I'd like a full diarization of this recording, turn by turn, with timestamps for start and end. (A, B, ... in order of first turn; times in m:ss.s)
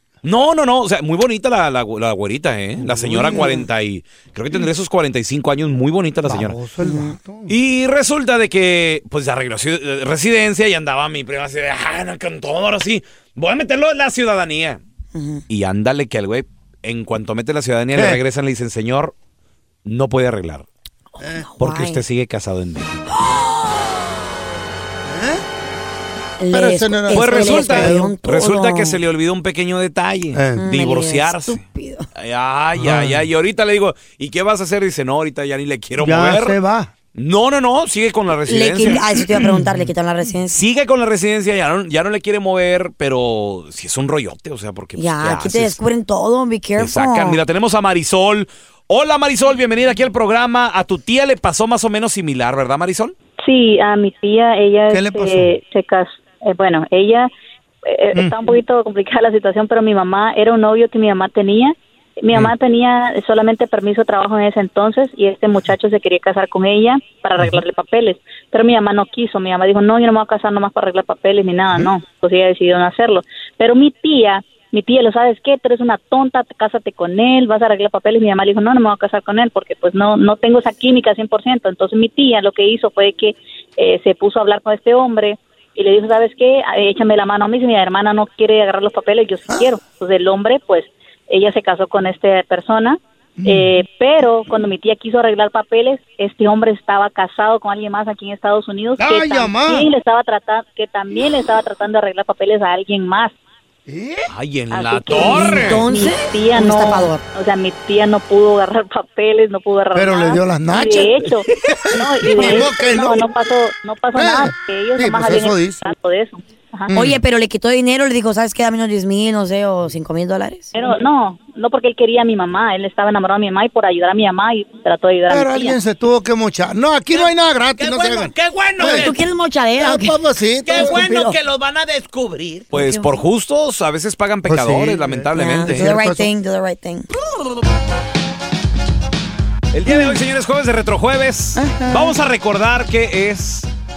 0:00.2-0:06.6 A
0:02.8-0:03.6 B
0:03.3-0:03.7 C
0:06.3-0:07.5 B
0:06.8-0:07.2 C
0:07.5-0:14.8 A
0:15.1-0:15.4 C
0:15.5-0:19.1 A
0:19.8-0:20.7 A
0:21.2-0:22.0 C
0:21.6-0:23.2 A
0:23.1-0:24.0 C
0:25.1-0:25.4 B
0:26.4-0:29.0 C
0:26.5-0:28.1 B
0:27.1-0:31.6 A
0:30.6-0:32.1 C
0:32.2-0:36.6 A
0:32.8-0:33.2 B
0:36.0-0:36.9 B
0:37.2-0:39.3 A
0:38.5-0:40.6 C
0:39.4-0:39.8 B
0:40.5-0:45.8 A
0:45.0-0:47.4 C
0:46.8-0:53.1 A
0:53.4-0:57.3 D
0:54.9-0:55.6 B
0:57.9-1:43.3 D
0:58.2-0:58.4 B
1:33.4-1:33.8 B
1:39.0-1:39.9 B
1:43.9-1:44.3 B
1:44.3-1:45.9 A
1:44.7-1:56.9 D
1:45.1-1:47.2 C
1:49.9-1:51.3 B
1:51.9-1:53.3 B
1:54.2-1:55.8 B
1:56.9-1:57.2 B
1:56.9-2:00.7 C
2:00.8-2:05.8 D
2:05.3-2:09.1 B
2:07.1-2:09.2 A
2:08.8-2:10.2 C
2:09.8-2:10.9 B
2:10.6-2:15.9 A
2:10.7-2:11.4 C
2:12.7-2:13.2 C
2:14.5-2:16.3 B
2:15.3-2:17.1 C
2:19.7-2:23.7 A
2:21.6-2:22.2 B